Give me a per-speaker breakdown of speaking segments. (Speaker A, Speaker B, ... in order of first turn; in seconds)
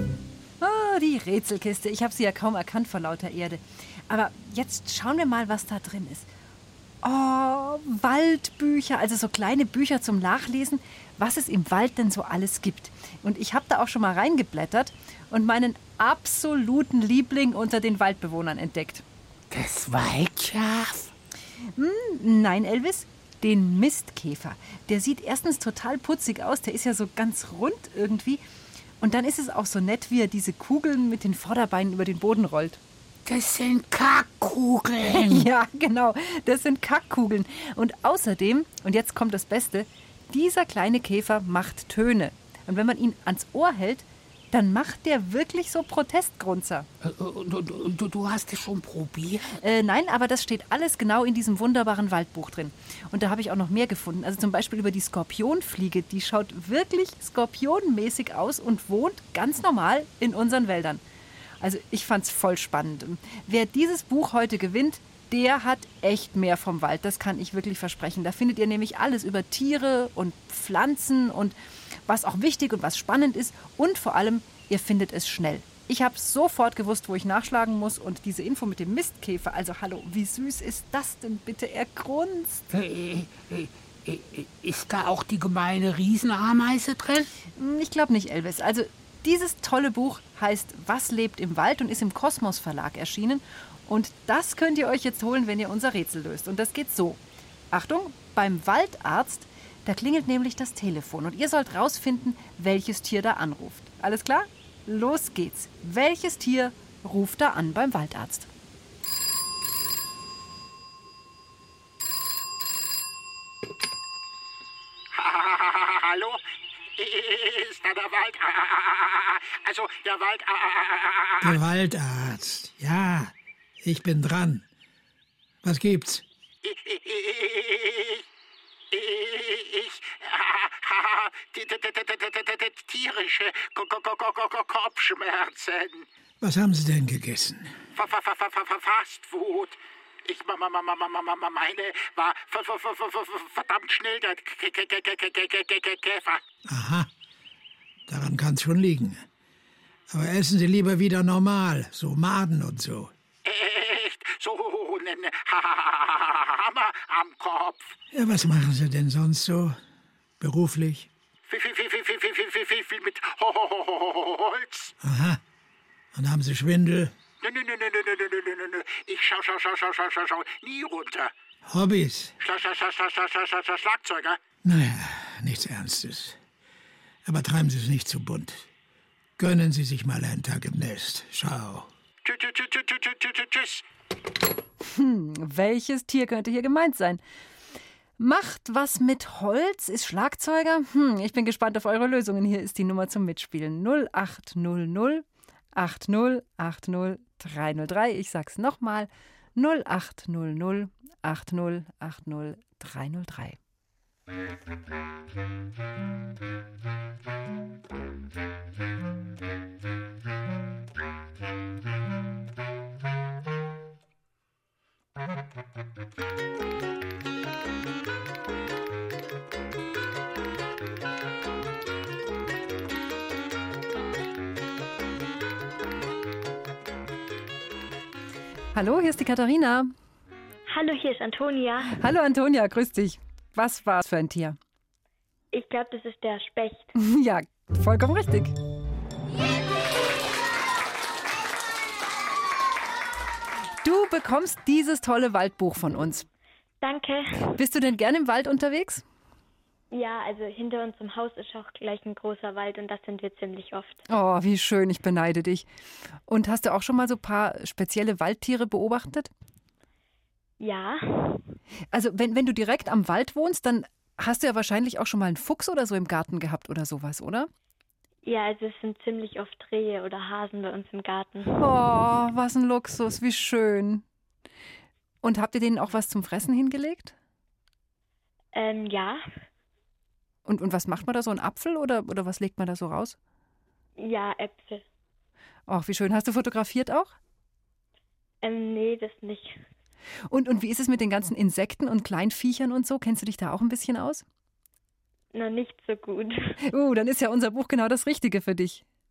Speaker A: 0.6-6.3, 7.0-19.0, 21.8-28.4, 29.0-32.8, 35.1-46.9, 49.6-61.0, 61.6-71.5, 72.1-82.6, 87.5-97.2, 97.7-108.5, 184.9-187.2, 188.2-195.2, 195.8-203.6, 228.7-229.9, 231.8-234.6, 236.9-238.5, 243.8-246.3, 247.6-249.0, 254.1-255.7, 256.3-259.3, 261.9-267.5, 271.6-274.0, 275.2-277.1, 280.4-283.1, 285.7-287.1, 290.3-294.2, 296.6-298.8
Speaker B: 19.5-21.1, 33.2-35.5, 47.0-49.6, 82.7-87.3
Speaker C: 115.1-116.4, 117.0-121.6, 126.6-128.2, 128.9-136.1, 137.9-146.4, 153.4-157.9, 161.5-164.9, 167.4-171.3, 172.4-174.4, 182.2-183.8
Speaker D: 121.4-124.7, 125.6-126.2, 136.4-137.8, 146.6-147.1, 148.1-149.2, 150.1-153.1, 158.1-159.8, 160.4-161.1, 165.0-165.4, 166.1-167.1, 171.7-172.3, 174.6-176.4, 177.2-178.7, 179.4-181.9
Speaker E: 230.7-231.9, 235.5-236.8, 246.8-247.2, 249.9-254.0, 260.6-261.0, 268.2-271.4, 278.5-279.2, 284.0-284.8, 288.4-289.5, 295.3-296.3